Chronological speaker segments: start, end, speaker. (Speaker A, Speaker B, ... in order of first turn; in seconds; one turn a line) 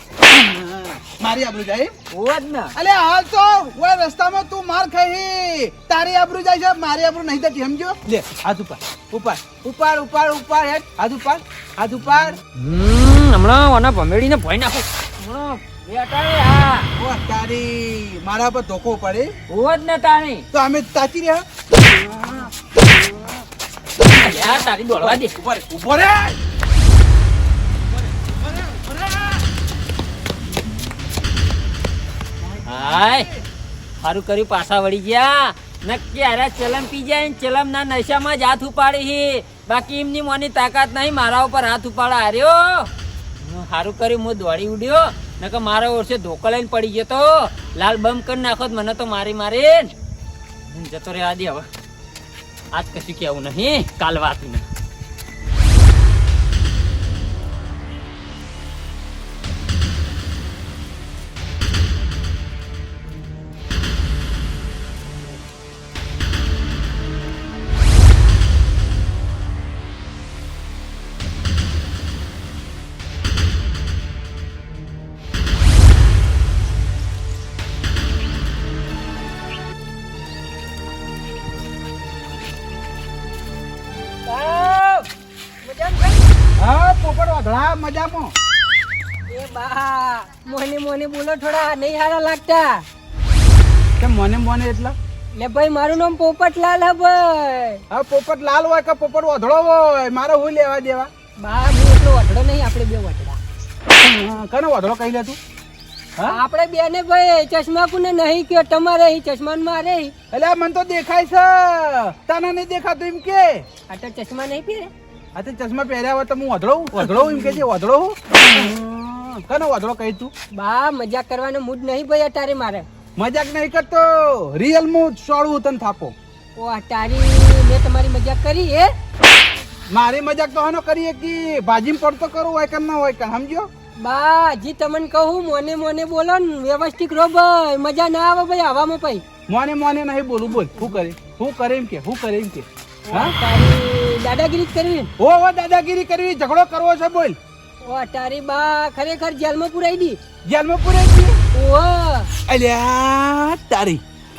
Speaker A: 0.2-1.9
Speaker B: 2.1-2.7
Speaker A: 2.7-12.4
Speaker B: 12.6-16.9
Speaker A: 17.0-19.3
Speaker B: 19.5-20.4
Speaker A: 20.5-23.3
Speaker A: 24.0-26.4
Speaker B: 24.0-25.3
Speaker A: 28.2-29.4
Speaker A: 32.4-33.4
Speaker B: 32.7-33.3
Speaker B: 34.0-49.9
Speaker B: 50.7-51.7
Speaker B: 52.7-54.6
Speaker C: 84.2-85.1
Speaker C: 85.6-86.2
Speaker A: 86.6-88.3
Speaker C: 89.3-92.8
Speaker A: 94.0-95.0
Speaker C: 95.3-97.8
Speaker A: 97.9-101.1
Speaker C: 101.4-103.4
Speaker A: 104.0-105.4
Speaker C: 106.3-110.1
Speaker A: 110.3-113.7
Speaker C: 113.9-114.9
Speaker A: 115.3-120.3
Speaker C: 117.0-117.5
Speaker C: 118.4-118.6
Speaker C: 120.5-122.9
Speaker A: 123.2-126.1
Speaker C: 126.6-128.9
Speaker A: 129.9-133.7
Speaker C: 134.0-139.2
Speaker A: 139.5-143.3
Speaker C: 143.1-145.1
Speaker A: 145.2-147.4
Speaker C: 147.8-150.2
Speaker A: 150.4-151.4
Speaker C: 151.5-152.3
Speaker A: 152.5-154.0